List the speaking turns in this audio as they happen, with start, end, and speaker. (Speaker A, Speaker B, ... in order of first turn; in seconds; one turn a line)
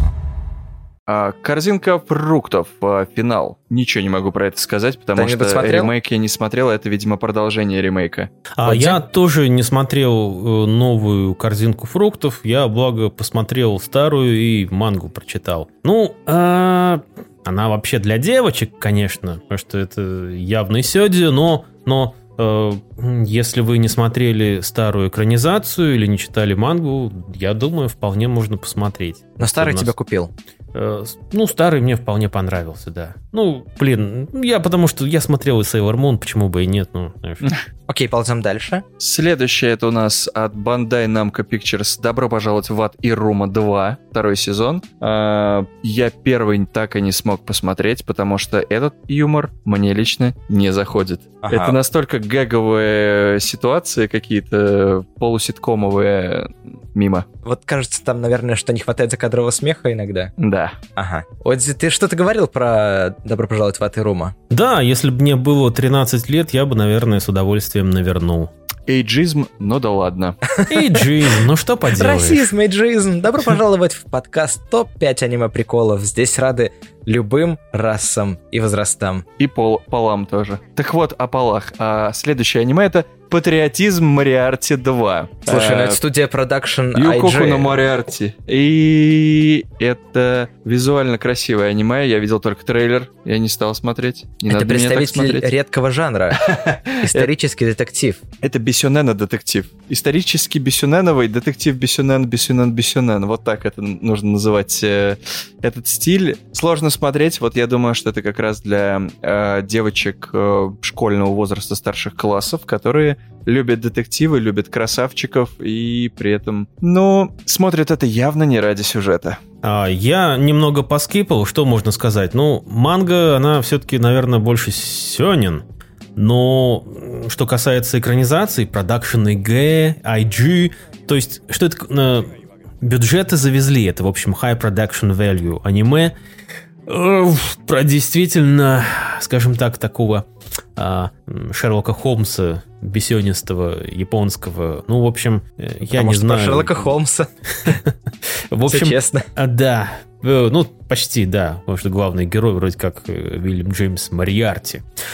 Speaker A: 1.1-8.3
Speaker B: 5.2-5.9
Speaker C: 8.6-29.9
Speaker B: 8.6-9.0
Speaker B: 29.4-30.3
Speaker C: 30.7-37.4
Speaker B: 37.9-38.8
Speaker A: 39.0-57.3
Speaker B: 51.4-51.8
Speaker B: 57.4-60.3
Speaker A: 60.4-60.8
Speaker B: 61.0-64.3
Speaker C: 64.5-68.5
Speaker A: 68.9-70.4
Speaker B: 70.6-71.0
Speaker C: 70.7-72.5
Speaker B: 71.9-79.2
Speaker A: 79.4-86.0
Speaker B: 85.5-87.8
Speaker A: 87.0-95.5
Speaker B: 94.5-96.5
Speaker A: 96.4-97.3
Speaker B: 97.0-98.2
Speaker A: 98.4-119.4
Speaker C: 119.6-125.6
Speaker C: 126.2-136.1
Speaker C: 136.9-146.9
Speaker B: 145.9-147.3
Speaker C: 147.5-154.8
Speaker B: 148.7-149.3